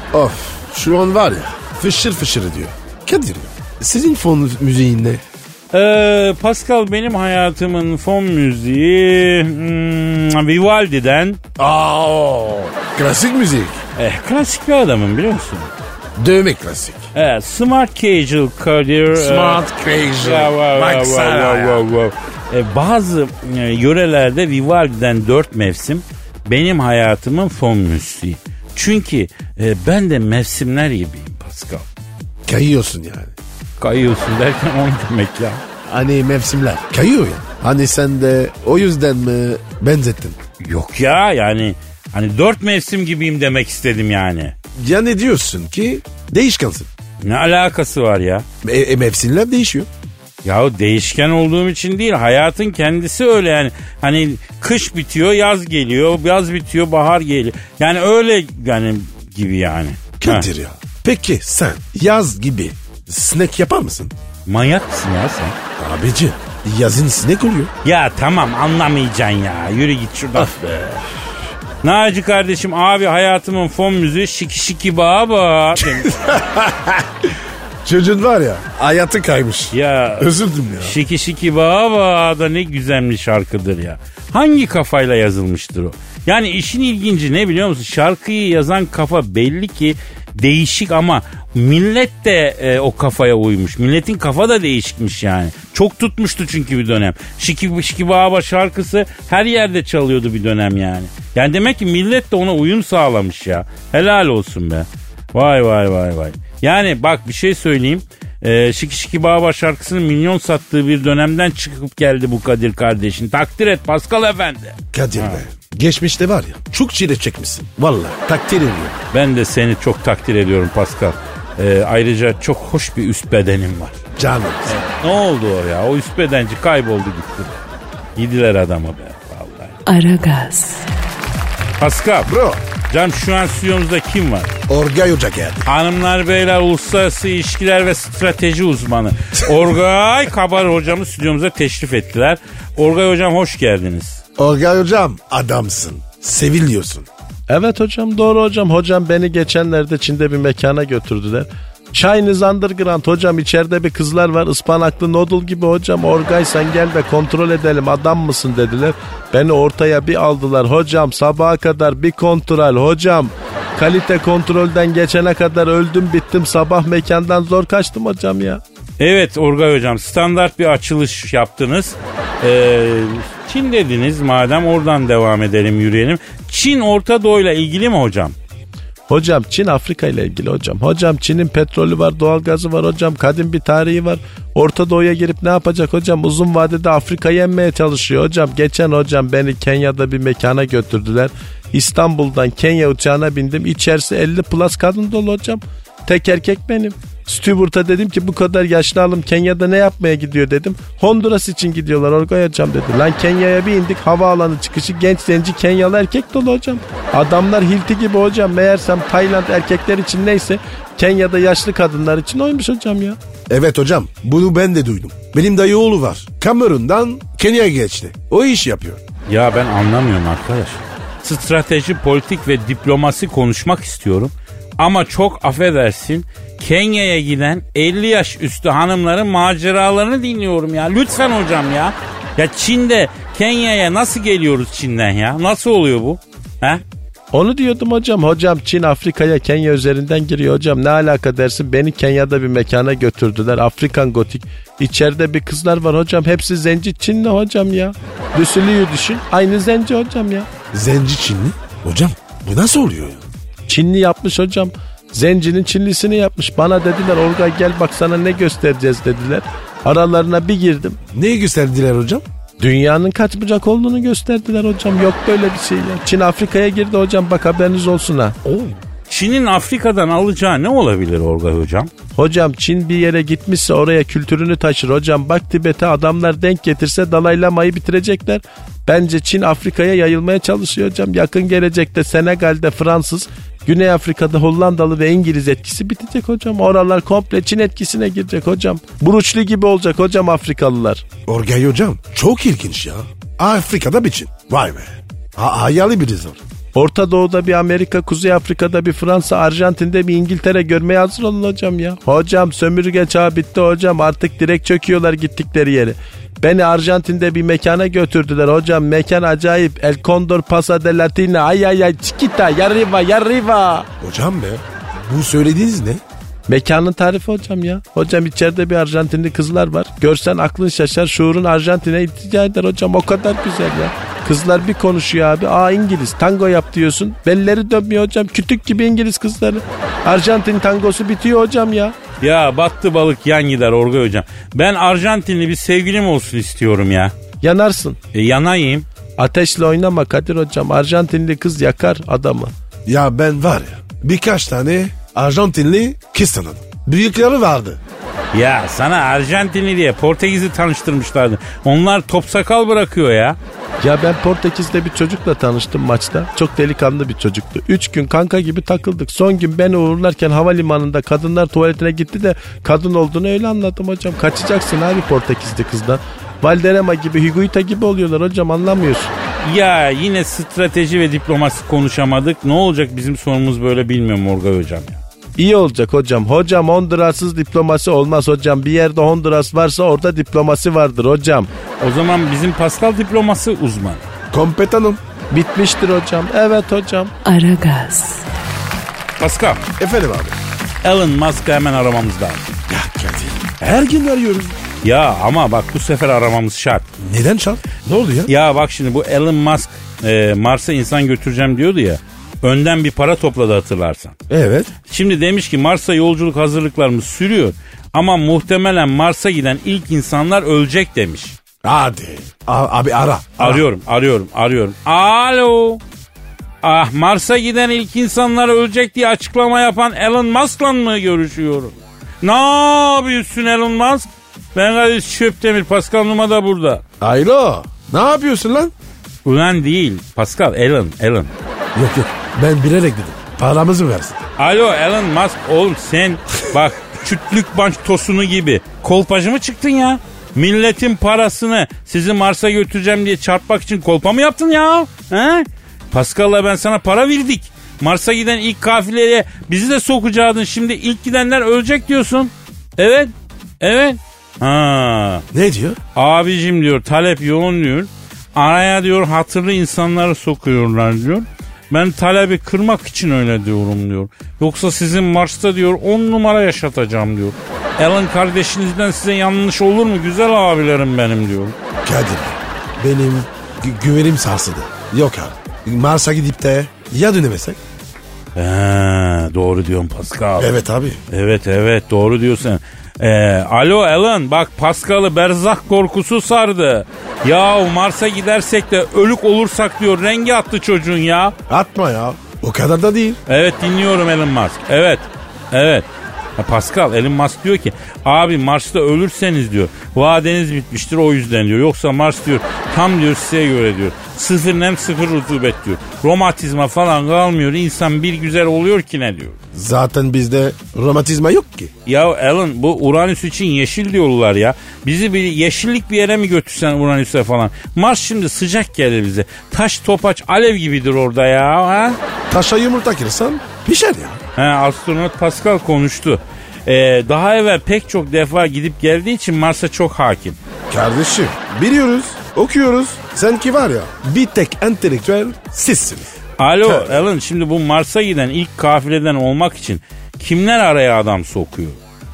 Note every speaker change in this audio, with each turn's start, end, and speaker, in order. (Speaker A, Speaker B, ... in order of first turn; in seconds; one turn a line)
Speaker A: 0.1-5.2
Speaker B: 5.7-11.4
Speaker A: 11.6-13.8
Speaker B: 14.0-15.7
Speaker A: 16.2-17.1
Speaker B: 17.1-19.6
Speaker A: 19.1-21.8
Speaker B: 20.1-31.9
Speaker A: 32.5-33.4
Speaker B: 33.8-35.6
Speaker A: 35.9-40.4
Speaker B: 40.6-44.5
Speaker A: 44.8-46.9
Speaker B: 47.2-48.5
Speaker A: 48.6-49.9
Speaker B: 50.4-60.5
Speaker A: 60.2-64.1
Speaker B: 64.5-65.6
Speaker A: 65.8-67.7
Speaker B: 67.8-70.6
Speaker A: 70.3-71.0
Speaker B: 71.8-76.2
Speaker A: 75.8-77.3
Speaker A: 77.8-81.0
Speaker B: 79.7-115.4
Speaker A: 114.9-119.0
Speaker B: 119.1-124.0
Speaker A: 124.2-124.8
Speaker B: 124.7-127.6
Speaker B: 128.2-129.8
Speaker C: 129.9-130.9
Speaker B: 131.8-132.3
Speaker A: 132.3-132.6
Speaker B: 132.9-134.5
Speaker A: 134.7-135.7
Speaker B: 135.7-144.2
Speaker A: 144.4-147.1
Speaker D: 147.5-168.6
Speaker B: 169.0-178.4
Speaker D: 179.1-213.2
Speaker A: 213.5-219.0
Speaker B: 219.3-236.8
Speaker D: 237.3-250.5
Speaker A: 250.7-253.2
Speaker D: 253.7-261.0
Speaker A: 261.1-262.2
Speaker D: 262.6-268.4
Speaker A: 268.4-268.8
Speaker B: 269.1-271.9
Speaker D: 272.1-291.0
Speaker A: 291.3-296.4
Speaker D: 296.8-313.9
Speaker A: 314.0-316.0
Speaker D: 316.5-331.9
Speaker B: 332.2-337.1
Speaker D: 337.4-338.0
Speaker B: 338.1-338.9
Speaker D: 339.2-342.5
Speaker A: 342.9-347.8
Speaker B: 348.3-353.4
Speaker D: 353.8-369.1
Speaker B: 369.4-375.0
Speaker D: 375.4-381.5
Speaker B: 381.8-384.1
Speaker A: 384.3-385.0
Speaker D: 385.3-387.1
Speaker C: 387.2-388.2
Speaker B: 389.2-389.7
Speaker A: 389.8-390.4
Speaker B: 390.8-392.6
Speaker A: 392.7-394.6
Speaker B: 394.8-396.9
Speaker A: 397.0-398.3
Speaker B: 398.3-404.2
Speaker A: 404.3-404.7
Speaker B: 404.9-411.4
Speaker A: 411.6-413.6
Speaker B: 413.4-415.8
Speaker B: 416.6-426.8
Speaker A: 427.0-428.7
Speaker B: 429.2-431.3
Speaker A: 431.8-434.3
Speaker B: 434.4-455.2
Speaker A: 455.3-455.8
Speaker B: 455.9-471.6
Speaker A: 471.8-477.6
Speaker B: 478.4-480.5
Speaker A: 480.4-481.0
Speaker B: 481.1-491.4
Speaker A: 491.5-493.2
Speaker B: 493.3-509.4
Speaker A: 509.5-511.7
Speaker B: 511.9-522.0
Speaker A: 522.3-524.2
Speaker B: 524.4-530.4
Speaker A: 530.7-537.0
Speaker B: 536.4-541.8